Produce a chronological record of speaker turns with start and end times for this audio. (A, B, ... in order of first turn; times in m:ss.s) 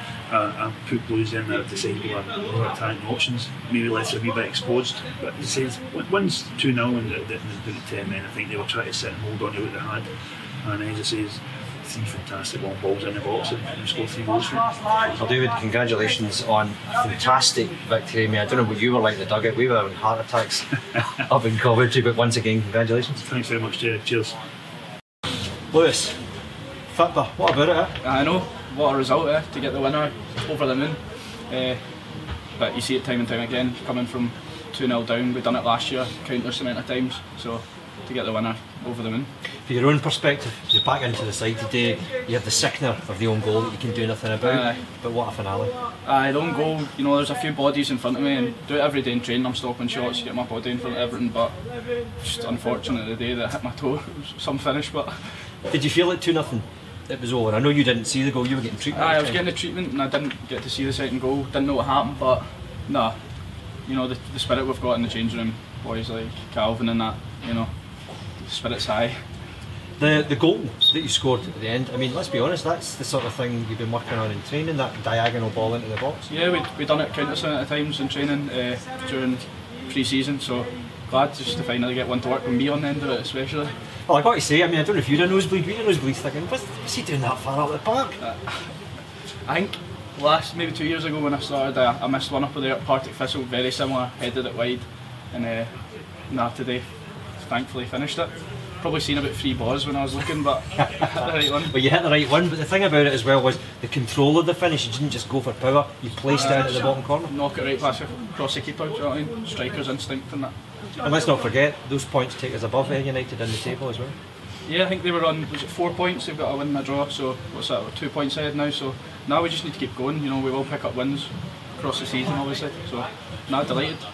0:00.3-0:10.1 A
0:10.6-0:14.8 A
0:15.1-0:23.2 B
0:23.2-0:24.4 A
0:25.7-0:26.2 B
0:26.9-0:27.9 B
0:28.0-0:31.8 C
0:32.6-0:39.3 C
0:39.7-0:45.8 B
0:44.4-0:44.8 C
0:46.0-0:51.6 C
0:52.2-0:55.4 C
0:55.7-0:59.4 B
0:58.9-1:03.2 C
1:03.8-1:07.7 C
1:08.4-1:09.2 C
1:10.0-1:16.3 B
1:16.3-1:23.7 C
1:24.1-1:28.2 B
1:28.2-1:28.6 C
1:29.5-1:35.7 C
1:36.3-1:36.9 C
1:37.4-1:41.7 C
1:40.8-1:41.0 B
1:41.6-1:47.3 B
1:46.3-1:50.5 C
1:51.0-1:54.2 B
1:54.7-2:04.0 C